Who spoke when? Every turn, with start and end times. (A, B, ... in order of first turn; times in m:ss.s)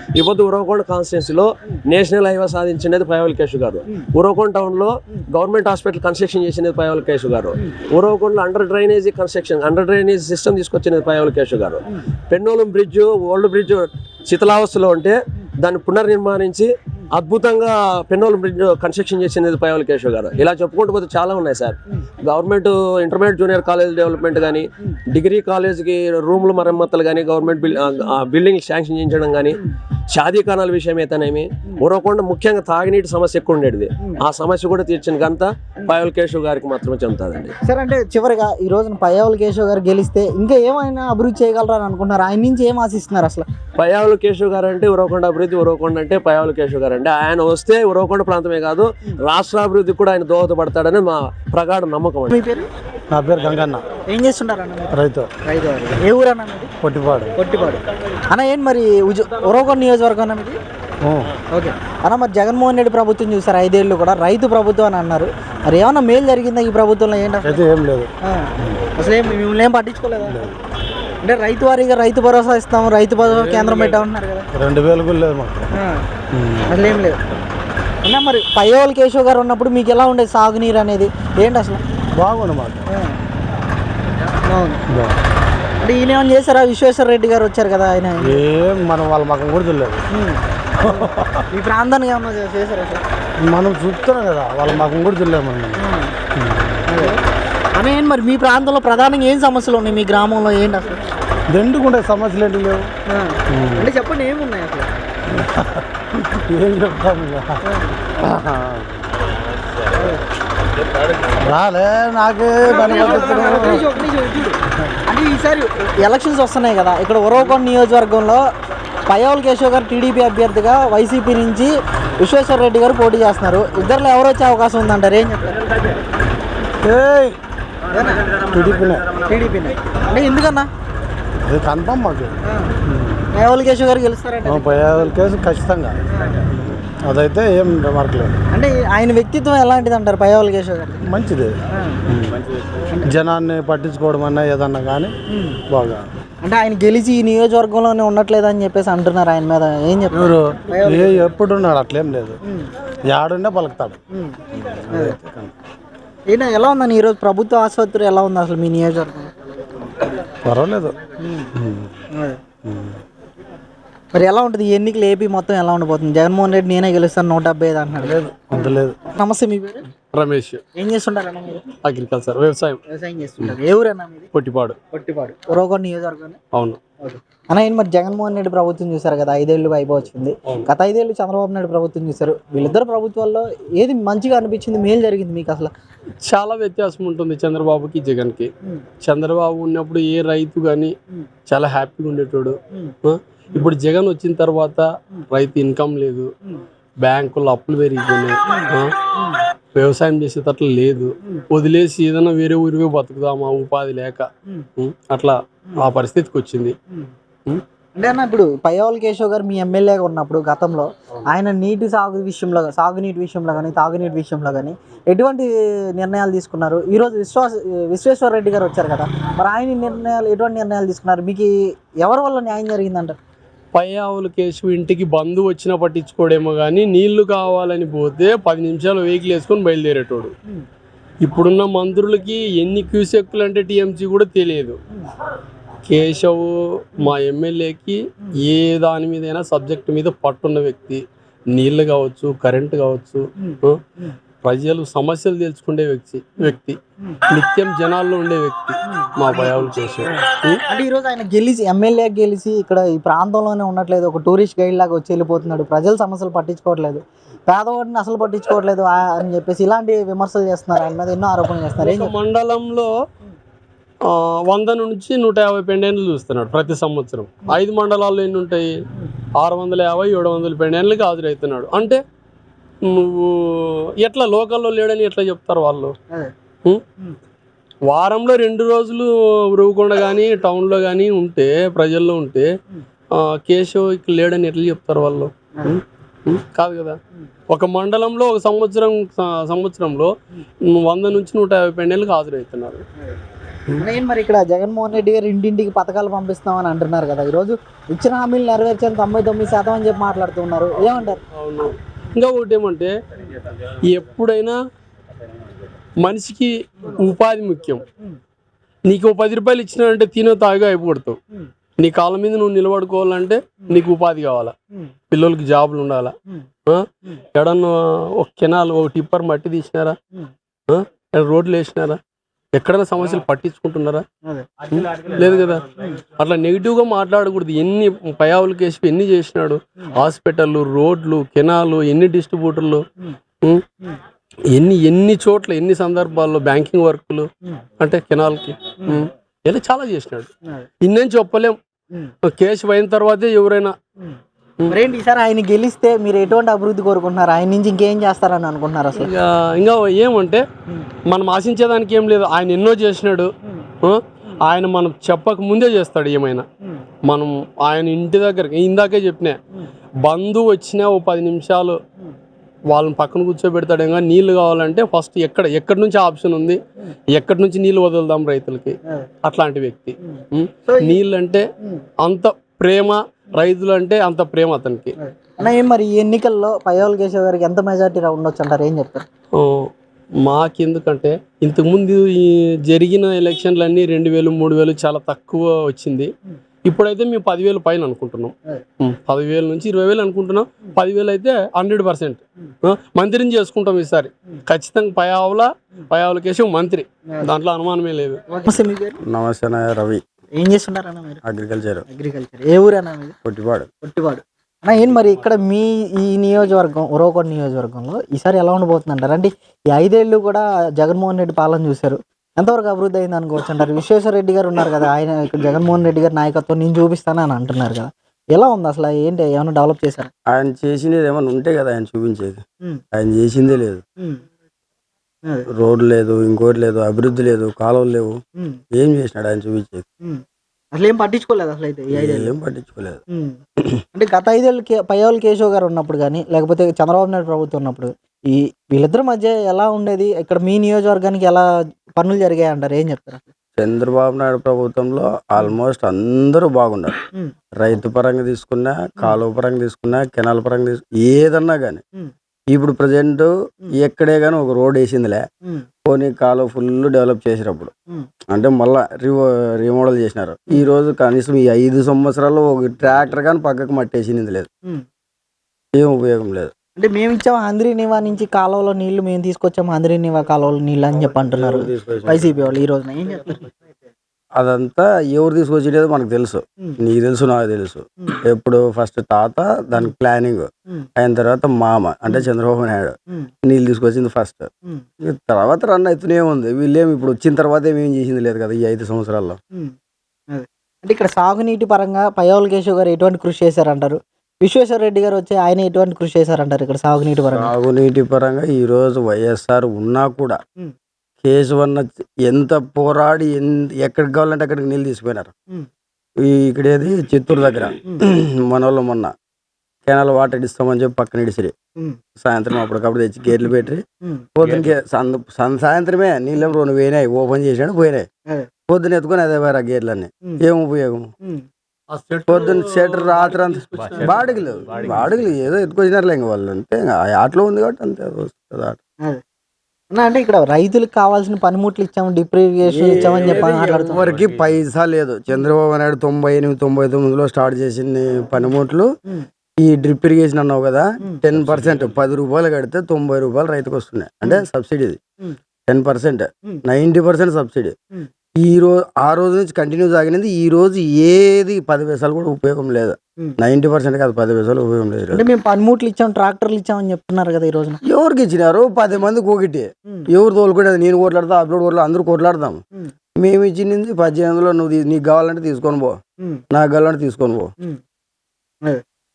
0:00.1-0:29.5 A
0:30.1-0:37.5 A
0:37.6-0:43.4 B
0:43.8-0:52.4 A
0:52.3-0:52.7 B
0:53.1-0:53.8 C
0:54.1-0:56.7 B
0:54.9-0:55.3 C
0:56.8-0:57.3 C
0:57.4-1:00.6 B
1:01.0-1:01.3 C
1:01.5-1:07.6 B
1:07.4-1:08.1 C
1:08.2-1:10.4 B
1:10.3-1:10.5 C
1:11.2-1:14.5 B
1:13.3-1:14.0 D
1:14.5-1:15.7 C
1:15.8-1:16.0 B
1:16.3-1:16.7 C
1:16.7-1:17.2 B
1:18.0-1:21.8 B
1:22.2-1:22.8 C
1:22.9-1:23.2 B
1:24.5-1:24.8 B
1:24.9-1:25.2 C
1:25.8-1:28.4 B
1:28.2-1:30.0 C
1:30.1-1:33.0 B
1:30.8-1:31.4 C
1:33.4-1:35.8 C
1:35.8-1:36.1 B
1:36.4-1:37.0 C
1:36.9-1:37.2 B
1:37.7-1:41.0 B
1:41.5-1:42.9 C
1:43.1-1:44.9 B
1:43.5-1:43.9 C
1:45.3-1:47.6 C
1:47.6-1:48.0 B
1:48.2-1:49.1 C
1:51.4-1:54.0 C
1:52.6-1:58.4 B
1:59.1-2:05.6 B
2:06.8-2:07.4 C
2:07.9-2:08.2 B
2:08.5-2:09.1 C
2:09.2-2:10.7 B
2:11.4-2:12.4 C
2:12.4-2:12.7 B
2:12.9-2:13.2 C
2:13.3-2:15.0 B
2:14.4-2:16.0 C
2:16.1-2:16.4 B
2:16.5-2:18.4 C
2:18.5-2:21.0 B
2:21.0-2:21.6 C
2:21.7-2:22.0 B
2:22.1-2:22.4 C
2:23.0-2:25.1 C
2:25.3-2:25.6 B
2:25.7-2:26.1 C
2:26.4-2:31.3 B
2:30.1-2:32.4 C
2:32.4-2:32.7 B
2:33.0-2:34.0 C
2:34.1-2:35.2 B
2:34.6-2:35.5 C
2:36.3-2:39.3 B
2:40.4-2:41.0 C
2:41.2-2:41.5 B
2:41.6-2:41.9 C
2:42.1-2:42.4 B
2:42.6-2:43.0 C
2:44.1-2:49.8 B
2:48.0-2:49.0 C
2:50.1-2:50.6 D
2:50.8-2:51.6 B
2:51.8-2:52.8 D
2:52.9-2:54.3 B
2:54.3-2:54.8 D
2:54.9-2:56.4 B
2:56.5-2:56.8 D
2:57.0-3:05.7 B
3:06.2-3:08.5 D
3:09.0-3:10.9 D
3:11.5-3:16.3 D
3:17.0-3:18.9 D
3:19.7-3:26.7 D
3:28.0-3:43.2 B
3:43.7-3:50.3 D
3:51.2-3:54.8 D
3:55.8-4:03.8 D
4:04.4-4:10.6 D
4:09.0-4:22.1 B
4:21.8-4:22.9 D
4:24.1-4:28.7 D
4:29.4-4:32.0 D
4:32.8-4:35.9 D
4:37.9-4:42.5 D
4:43.1-4:47.0 D
4:47.5-4:50.1 D
4:50.7-4:52.8 D
4:53.8-5:01.2 B
5:01.3-5:02.9 D
5:03.9-5:04.6 D
5:06.0-5:07.8 D
5:08.9-5:11.2 D
5:11.8-5:14.5 D
5:15.1-5:16.1 D
5:16.6-5:20.0 D
5:20.7-5:22.0 D
5:22.5-5:24.0 D
5:24.7-5:25.6 D
5:26.2-5:32.8 D
5:34.5-5:37.3 D
5:37.8-5:40.3 D
5:40.8-5:41.6 D
5:42.3-5:43.7 D
5:44.7-5:49.1 B
5:49.0-5:50.4 D
5:51.1-5:53.3 D
5:53.8-5:56.4 D
5:57.1-5:59.4 D
6:00.0-6:01.8 D
6:02.7-6:06.6 D
6:07.1-6:11.4 D
6:10.1-6:11.0 B
6:12.0-6:14.9 D
6:15.0-6:19.0 B
6:19.4-6:19.7 D
6:20.2-6:26.1 D
6:26.6-6:38.2 D
6:38.3-6:39.0 B
6:39.0-6:40.0 E
6:40.4-6:41.2 B
6:41.2-6:41.8 E
6:41.9-6:43.1 B
6:43.2-6:43.7 E
6:43.8-7:00.1 B
7:00.3-7:02.4 E
7:02.9-7:03.8 E
7:05.5-7:08.2 E
7:08.7-7:09.8 E
7:10.7-7:12.3 B
7:11.9-7:13.0 E
7:13.1-7:13.4 B
7:13.9-7:23.3 B
7:23.6-7:27.0 E
7:27.6-7:31.8 E
7:32.5-7:35.2 E
7:35.8-7:37.7 E
7:38.3-7:44.5 E
7:45.7-7:46.5 E
7:46.8-7:53.5 B
7:51.2-7:52.4 E
7:54.4-8:04.5 E
8:05.0-8:09.4 E
8:10.3-8:17.5 B
8:17.3-8:20.4 E
8:21.2-8:25.3 E
8:26.2-8:29.1 E
8:29.8-8:31.5 E
8:32.2-8:33.8 E
8:34.4-8:38.1 E
8:38.7-8:41.1 E
8:41.9-8:45.0 D
8:42.3-8:48.8 E
8:44.1-8:44.5 A
8:49.9-8:54.0 B
8:52.8-8:58.9 E
8:59.6-9:05.0 E
9:05.7-9:07.7 E
9:08.4-9:15.2 E
9:15.1-9:17.8 B
9:17.8-9:22.6 E
9:23.2-9:26.0 E
9:26.5-9:27.5 E